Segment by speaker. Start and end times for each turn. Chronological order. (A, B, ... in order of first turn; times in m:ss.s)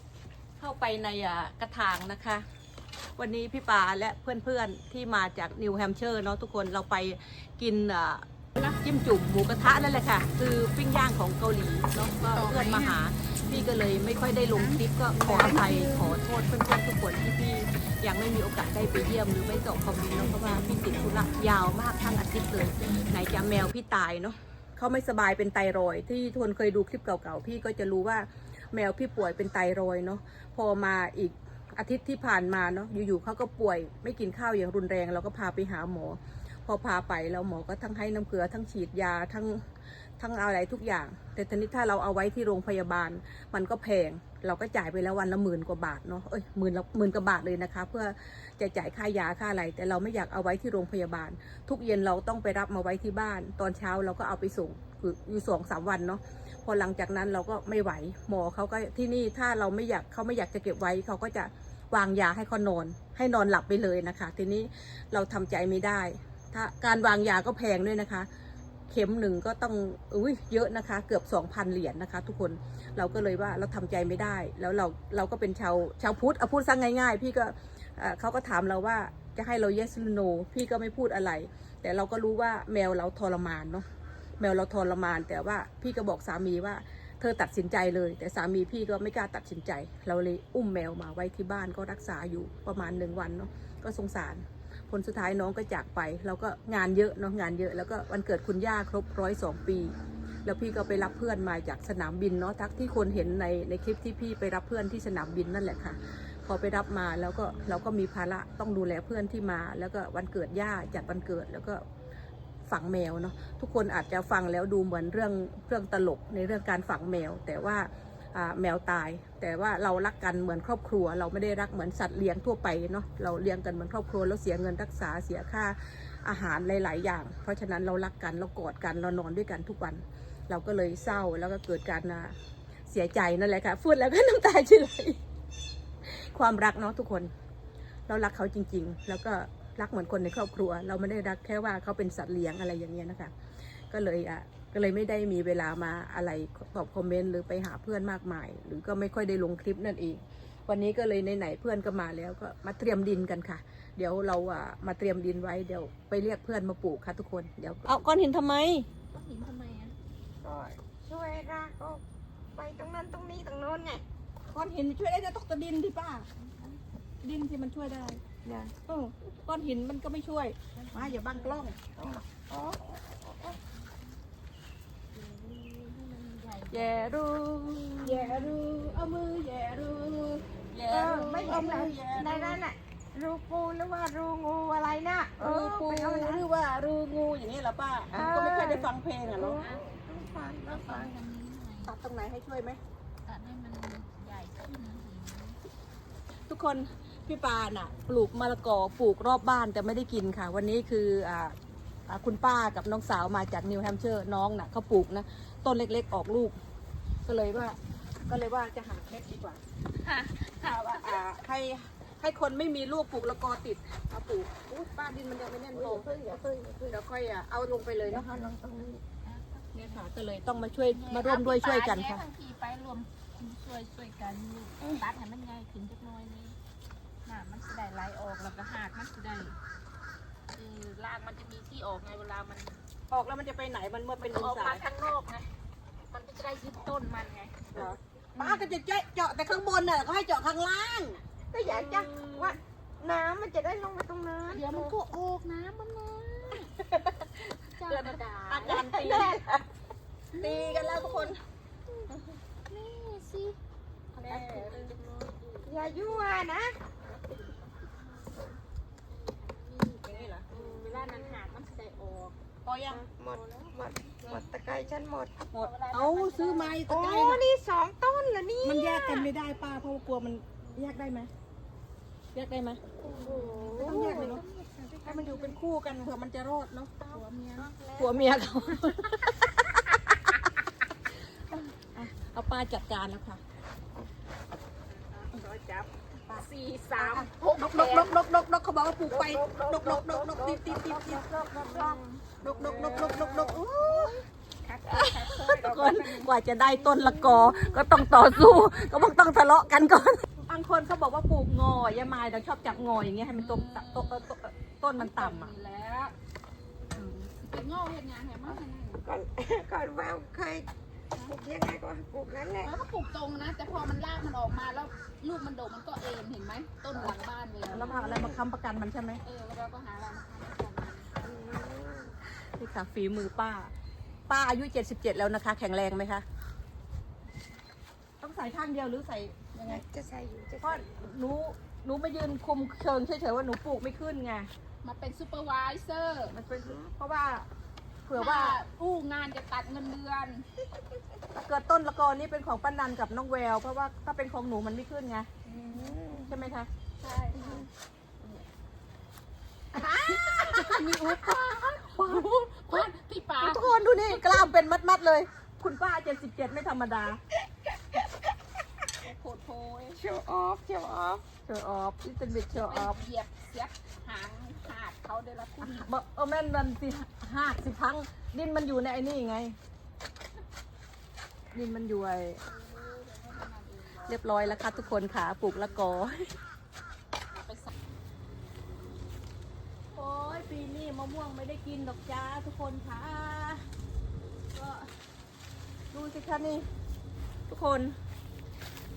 0:00.6-0:02.5 A
0:03.2-0:39.6 A
0:12.3-0:16.0 B
0:40.2-1:08.3 A
1:08.9-1:23.8 A
1:24.4-1:39.9 A
1:40.4-1:51.8 A
1:52.7-2:12.3 A
2:12.9-2:15.2 A
2:16.0-2:17.3 A
2:18.1-2:23.3 A
2:23.9-2:38.9 A
2:39.1-2:39.9 B
2:40.4-2:42.0 C
2:42.5-2:44.0 C
2:44.5-2:46.3 A
2:46.4-2:46.8 B
2:47.2-2:48.2 A
2:48.4-2:48.8 C
2:48.8-2:51.8 A
2:50.8-2:51.6 B
2:52.0-2:53.6 C
2:53.7-2:54.0 B
2:55.1-2:57.2 B
2:56.7-3:02.6 A
2:58.0-2:58.6 B
3:00.9-3:06.4 C
3:05.4-3:09.6 A
3:08.1-3:11.1 C
3:09.6-3:10.0 B
3:10.7-3:11.9 B
3:11.8-3:12.8 A
3:13.2-3:15.6 B
3:16.5-3:21.5 A
3:22.1-3:26.6 A
3:27.2-3:29.6 A
3:30.0-3:31.2 B
3:30.9-3:36.0 A
3:35.7-3:37.0 C
3:36.9-3:38.5 A
3:38.1-3:39.0 C
3:39.2-3:40.1 B
3:39.7-3:42.2 A
3:40.7-3:46.6 B
3:47.2-3:49.6 B
3:50.5-3:52.8 B
3:53.1-3:54.8 A
3:54.2-3:55.5 B
3:56.1-3:57.7 B
3:57.7-4:02.4 A
3:58.4-3:58.8 B
4:01.5-4:05.0 C
4:01.7-4:02.3 B
4:04.5-4:06.8 B
4:07.6-4:09.3 B
4:07.8-4:09.6 A
4:08.9-4:09.4 C
4:10.3-4:11.3 B
4:10.4-4:11.4 A
4:12.7-4:13.6 B
4:14.1-4:16.4 B
4:14.2-4:14.9 A
4:15.6-4:16.8 C
4:17.0-4:18.6 B
4:19.1-4:22.4 B
4:20.1-4:20.4 A
4:20.5-4:21.4 C
4:22.6-4:23.0 A
4:22.9-4:25.3 C
4:23.2-4:24.4 B
4:25.5-4:26.8 B
4:25.5-4:27.4 A
4:26.9-4:29.3 C
4:28.6-4:31.3 A
4:32.3-4:32.8 A
4:33.0-4:34.4 C
4:33.1-4:35.6 B
4:33.8-4:34.4 A
4:35.0-4:36.9 A
4:37.0-4:37.7 B
4:37.1-4:38.8 C
4:38.0-4:39.9 A
4:41.5-4:43.4 A
4:44.9-4:48.2 B
4:46.3-4:54.2 A
4:49.1-4:52.2 C
4:51.6-4:56.3 B
4:54.9-5:05.5 A
5:03.3-5:04.3 B
5:05.0-5:06.1 B
5:06.9-5:07.3 A
5:07.3-5:09.1 B
5:09.0-5:10.7 C
5:11.2-5:12.8 C
5:12.6-5:18.2 B
5:17.7-5:19.2 A
5:17.8-5:18.4 C
5:19.2-5:21.2 B
5:21.2-5:22.1 C
5:22.6-5:23.7 A
5:24.3-5:26.2 A
5:28.2-5:29.8 A
5:29.6-5:30.9 C
5:30.6-5:34.5 A
5:34.8-5:36.3 B
5:36.3-5:37.5 A
5:36.5-5:36.9 C
5:38.1-5:38.6 A
5:38.2-5:40.4 B
5:41.3-5:45.3 A
5:45.5-5:46.3 B
5:45.5-5:46.3 C
5:46.3-5:46.7 A
5:47.0-5:47.7 B
5:47.3-5:47.7 C
5:49.7-5:54.4 B
5:49.8-5:50.8 A
5:51.9-5:52.9 A
5:53.4-5:57.2 A
5:59.0-6:00.0 B
6:00.0-6:01.2 C
6:01.5-6:03.0 A
6:02.6-6:05.9 B
6:05.6-6:09.6 A
6:11.5-6:12.4 A
6:12.4-6:15.8 B
6:14.1-6:16.2 A
6:17.3-6:17.7 B
6:19.9-6:23.6 A
6:24.5-6:24.9 A
6:25.9-6:26.6 A
6:27.5-6:27.9 A